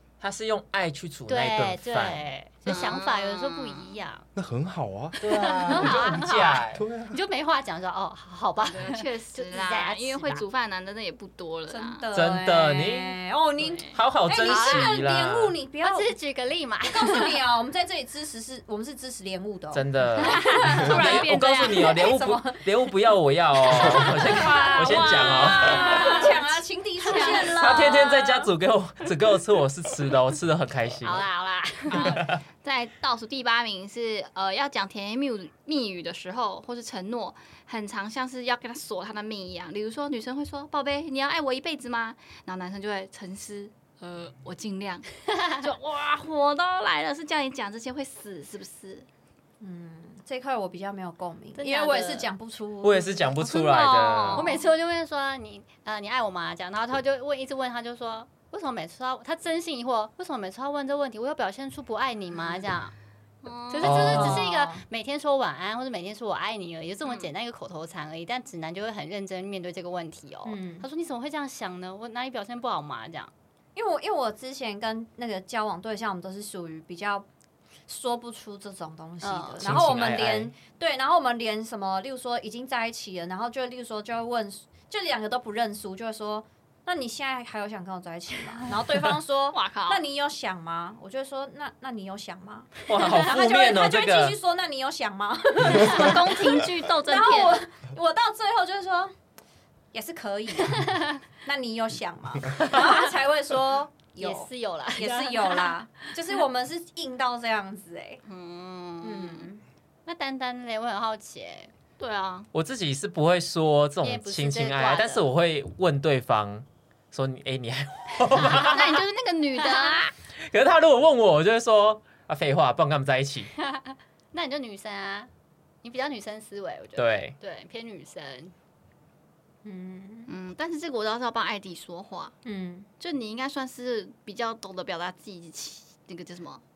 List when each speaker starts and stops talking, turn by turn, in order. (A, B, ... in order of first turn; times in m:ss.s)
0:00.2-0:02.2 A
0:01.3-0:04.3 B
0:02.6-0:03.9 C
0:04.3-0:07.2 D
0:05.2-0:06.8 A
0:05.2-0:10.4 B
0:08.6-0:12.0 C
0:11.7-0:16.1 E
0:12.1-0:13.2 A
0:13.6-0:14.0 C
0:13.9-0:15.5 A
0:14.4-0:14.9 B
0:15.8-0:17.3 B
0:16.8-0:22.6 E
0:19.7-0:26.0 A
0:20.2-0:21.9 C
0:23.7-0:25.1 B
0:23.7-0:28.5 E
0:23.9-0:26.5 C
0:25.6-0:26.3 B
0:27.0-0:27.6 C
0:27.1-0:27.4 B
0:27.5-0:31.2 A
0:31.0-0:32.2 B
0:31.9-0:49.0 C
0:32.1-0:32.4 A
0:49.6-0:53.3 E
0:51.6-0:52.3 B
0:52.8-0:54.5 A
0:53.4-0:54.6 C
0:54.3-1:02.9 B
1:03.4-1:04.3 C
1:03.7-1:13.3 B
1:03.8-1:04.4 A
1:04.1-1:04.8 E
1:10.4-1:10.9 E
1:13.7-1:17.2 E
1:17.9-1:39.1 E
1:19.2-1:19.6 B
1:19.6-1:20.5 A
1:19.7-1:20.3 D
1:29.5-1:30.0 C
1:32.9-1:34.4 A
1:35.6-1:37.6 C
1:39.9-1:48.2 E
1:40.7-1:41.1 B
1:44.2-1:45.7 B
1:48.3-1:49.4 B
1:49.0-1:49.6 E
1:50.0-1:51.7 B
1:52.0-1:52.5 C
1:52.5-1:59.0 A
1:54.0-1:55.3 B
1:58.4-1:58.7 B
1:58.5-2:00.1 C
1:59.6-2:00.1 B
2:00.4-2:03.5 A
2:03.6-2:05.3 B
2:05.8-2:08.5 B
2:07.0-2:07.4 A
2:09.6-2:10.3 E
2:10.3-2:12.3 C
2:12.4-2:12.9 E
2:13.0-2:16.6 C